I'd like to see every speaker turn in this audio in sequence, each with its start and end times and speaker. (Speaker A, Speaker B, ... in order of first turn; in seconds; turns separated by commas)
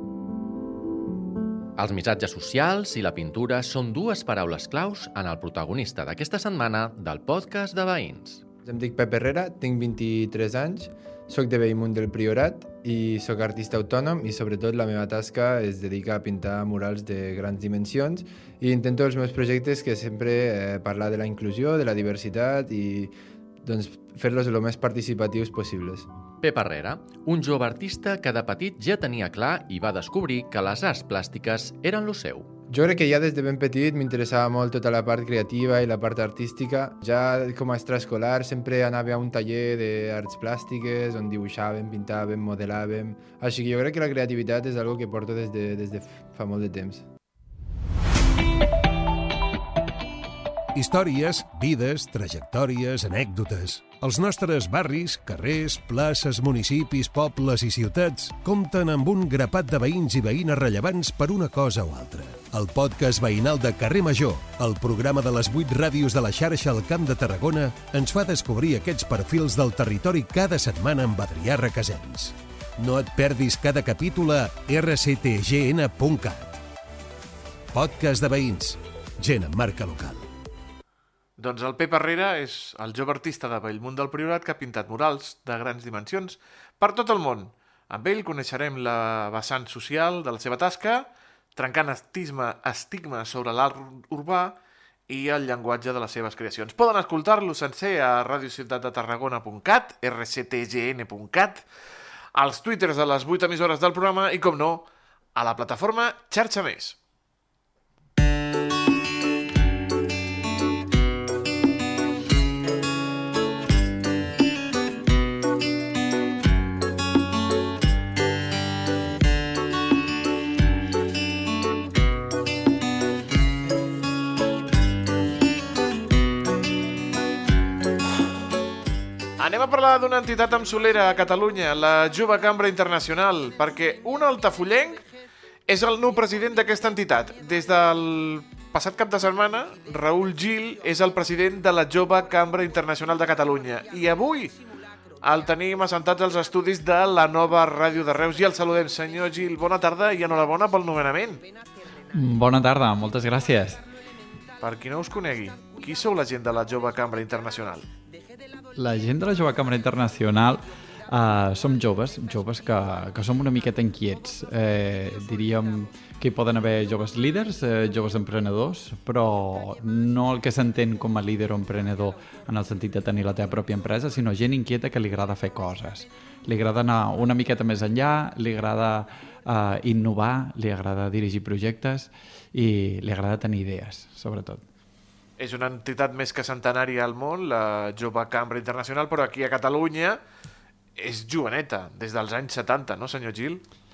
Speaker A: 1.8-8.4, Speaker B: 8.7-26.1, Speaker A: 26.4-32.5, Speaker B: 32.7-47.0, Speaker C: 50.7-76.6, Speaker C: 77.7-80.3, Speaker D: 81.4-101.6, Speaker D: 102.3-107.0, Speaker D: 129.4-135.0, Speaker D: 135.7-144.6, Speaker D: 145.2-151.4, Speaker E: 152.1-153.8, Speaker D: 154.6-157.9, Speaker E: 158.8-184.7, Speaker D: 185.4-190.2, Speaker D: 191.0-193.6